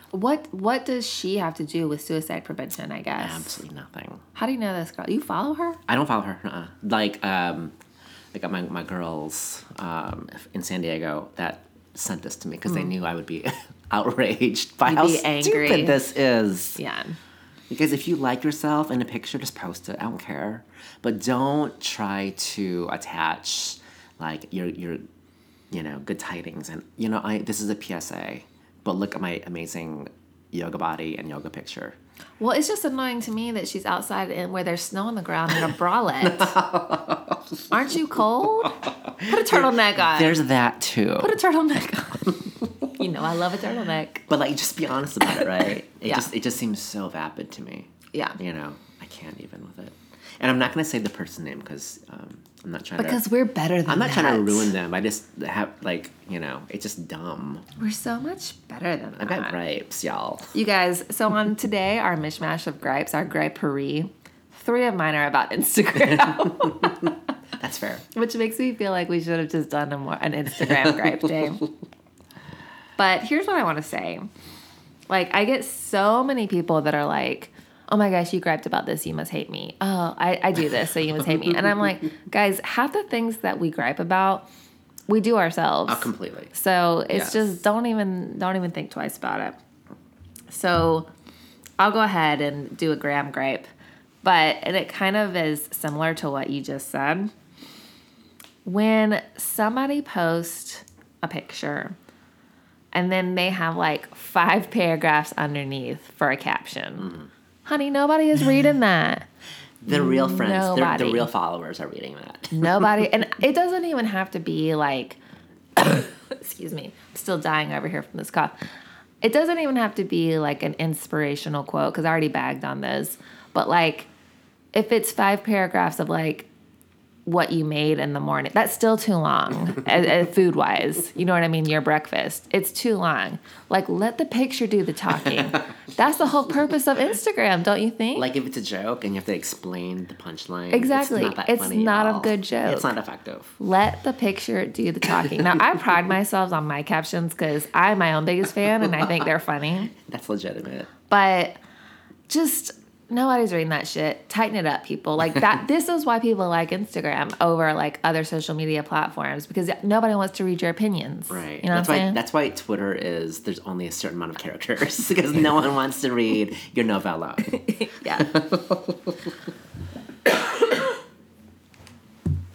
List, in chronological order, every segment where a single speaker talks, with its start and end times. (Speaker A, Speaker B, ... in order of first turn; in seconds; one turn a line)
Speaker A: 0.1-3.6
Speaker B: 3.2-4.2
Speaker A: 4.3-5.8
Speaker B: 5.9-7.7
Speaker B: 8.3-16.8
Speaker A: 14.8-16.1
Speaker A: 16.8-17.2
Speaker B: 17.7-25.0
Speaker B: 25.7-32.0
Speaker A: 32.4-36.5
Speaker B: 36.2-37.7
Speaker A: 37.7-40.4
Speaker B: 38.6-41.4
Speaker A: 41.2-44.2
Speaker B: 42.6-42.9
Speaker B: 44.3-53.2
Speaker A: 48.1-48.4
Speaker A: 53.0-54.7
Speaker B: 53.9-57.7
Speaker A: 57.8-59.6
Speaker B: 59.2-60.5
Speaker A: 60.5-67.1
Speaker B: 66.2-68.1
Speaker A: 68.1-71.6
Speaker B: 70.7-71.1
Speaker A: 73.0-74.3
Speaker A: 75.1-84.5
Speaker A: 85.1-89.6
Speaker B: 85.9-86.5
Speaker B: 87.1-87.5
Speaker A: 90.5-91.1
Speaker A: 91.8-93.7
Speaker A: 94.2-97.3
Speaker A: 98.6-102.0
Speaker A: 102.9-107.1
Speaker A: 107.7-109.2
Speaker B: 109.8-113.0
Speaker A: 109.9-111.3
Speaker A: 112.5-115.2
Speaker A: 115.8-118.5
Speaker A: 119.2-124.1
Speaker A: 124.7-126.5
Speaker A: 127.2-138.3
Speaker B: 135.1-135.6
Speaker B: 138.1-143.5
Speaker A: 140.7-142.9
Speaker A: 143.6-149.9
Speaker B: 148.8-149.2
Speaker B: 149.9-150.9
Speaker A: 151.1-151.6
Speaker A: 152.3-162.2
Speaker B: 161.3-169.3
Speaker A: 167.5-168.3